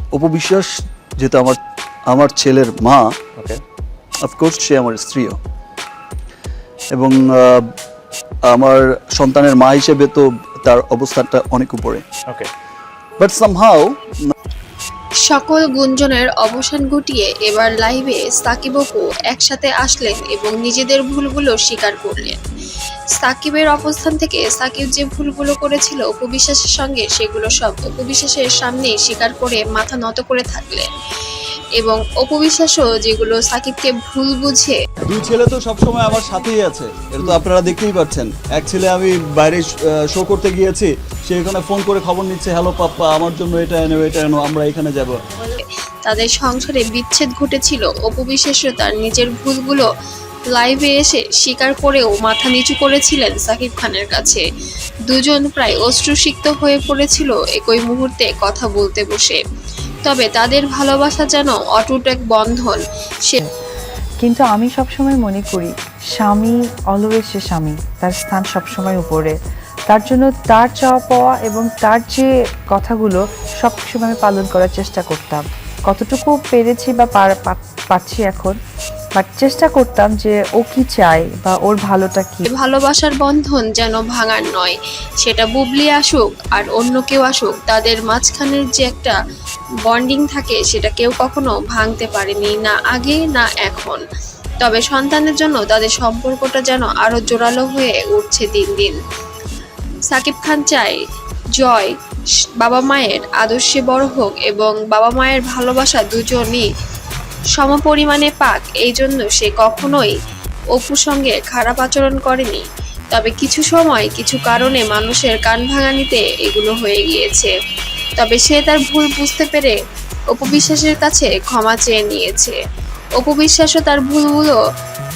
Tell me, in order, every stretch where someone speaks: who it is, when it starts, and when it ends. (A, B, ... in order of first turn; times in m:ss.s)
0:00.1-0:00.7 A
0:01.2-0:01.6 A
0:02.1-0:03.0 A
0:04.2-0:05.4 A
0:07.0-0:07.6 A
0:08.5-0:12.0 A
0:13.2-0:13.9 A
0:15.3-0:22.4 B
0:23.2-0:30.9 B
0:31.8-0:34.8 B
0:35.1-0:45.1 A
0:45.6-0:49.9 B
0:50.5-0:54.4 B
0:55.1-0:59.4 B
1:00.0-1:03.4 B
1:04.2-1:09.4 C
1:09.9-1:18.6 C
1:19.2-1:22.5 C
1:22.5-1:29.2 B
1:29.9-1:34.0 B
1:34.6-1:39.0 B
1:40.1-1:41.0 B
1:41.6-1:41.9 B
1:42.6-1:46.7 B
1:47.6-1:50.2 B
1:50.7-1:57.5 B
1:58.2-1:59.8 B
2:00.3-2:02.6 B
2:03.2-2:04.6 B